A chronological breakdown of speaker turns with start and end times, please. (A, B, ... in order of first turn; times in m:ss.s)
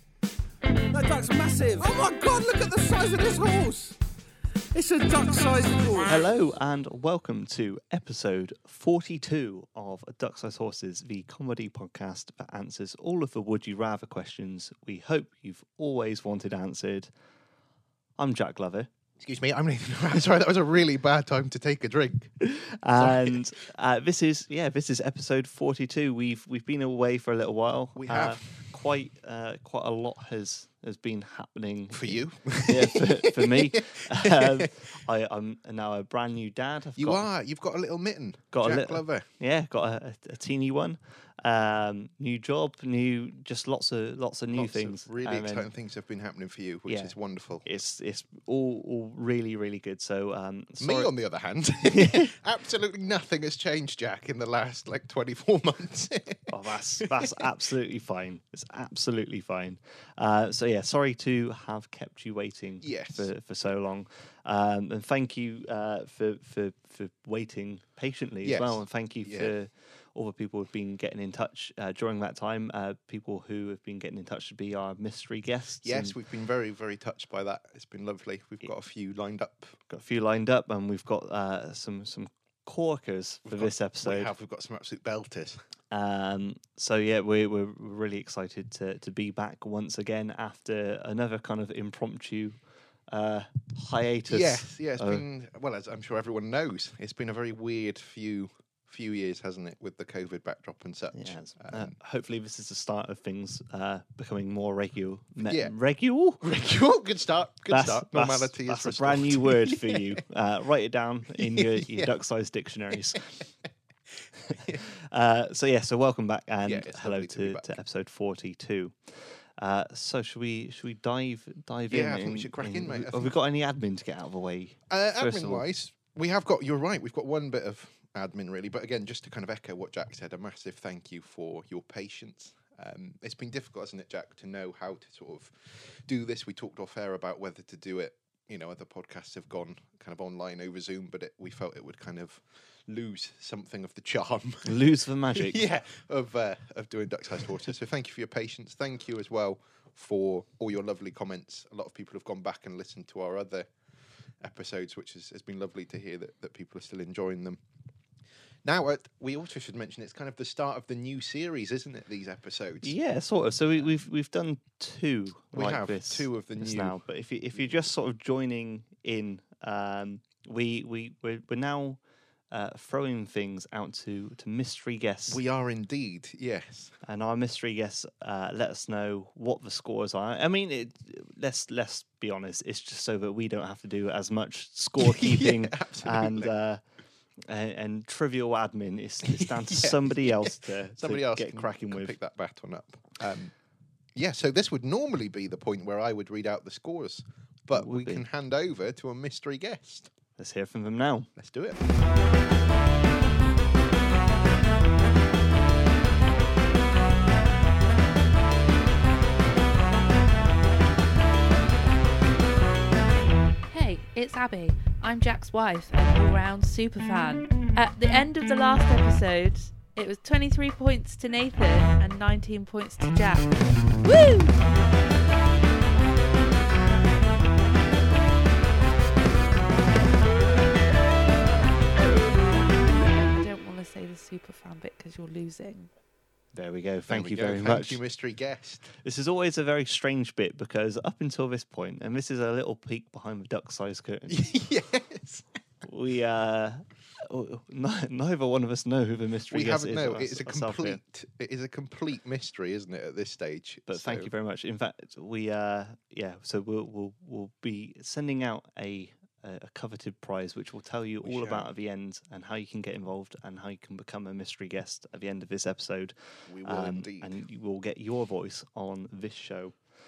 0:00.9-0:04.0 A
0:04.7-0:06.2 A
0:06.1-0:17.1 B
0:18.2-0:18.9 B
0:19.2-0:22.4 C
0:22.4-0:37.2 B
0:23.0-0:23.4 C
0:28.0-0:28.4 C
0:31.9-0:34.9 C
0:37.0-0:39.2 C
0:38.5-0:45.7 B
0:44.5-0:47.6 C
0:46.9-0:51.1 B
0:50.8-0:57.5 C
0:51.9-0:52.3 B
0:56.5-1:16.2 B
1:02.8-1:03.3 C
1:08.4-1:09.5 C
1:15.8-1:19.8 C
1:19.9-1:24.3 B
1:23.5-1:25.6 C
1:25.9-1:32.6 B
1:33.1-1:35.2 B
1:34.3-1:41.9 C
1:41.1-1:46.4 B
1:45.5-1:45.7 C
1:46.4-1:50.2 C
1:47.7-1:53.4 B
1:51.4-1:52.1 C
1:54.5-2:05.6 B
1:56.6-1:57.8 C
2:01.9-2:03.4 C
2:04.9-2:24.8 C
2:24.6-2:25.6 B
2:25.3-2:33.7 C
2:34.4-2:37.6 C
2:38.6-2:43.0 C
2:42.8-2:52.0 B
2:45.5-2:47.0 C
2:52.5-2:55.4 B
2:55.3-2:57.0 C
2:57.0-3:06.8 B
3:05.0-3:06.5 C
3:07.5-3:12.2 B
3:09.3-3:13.5 C
3:14.2-3:20.1 C
3:17.8-3:18.2 B
3:20.4-3:21.3 B
3:21.4-3:21.8 C
3:33.7-3:44.6 D
3:52.9-3:55.9 D
3:56.5-3:58.0 B
3:57.1-3:58.9 C
3:59.0-4:04.5 B
4:04.3-4:05.5 C
4:05.8-4:11.0 B
4:09.5-4:14.3 C
4:13.9-4:29.8 B
4:21.2-4:21.7 C
4:26.5-4:27.4 C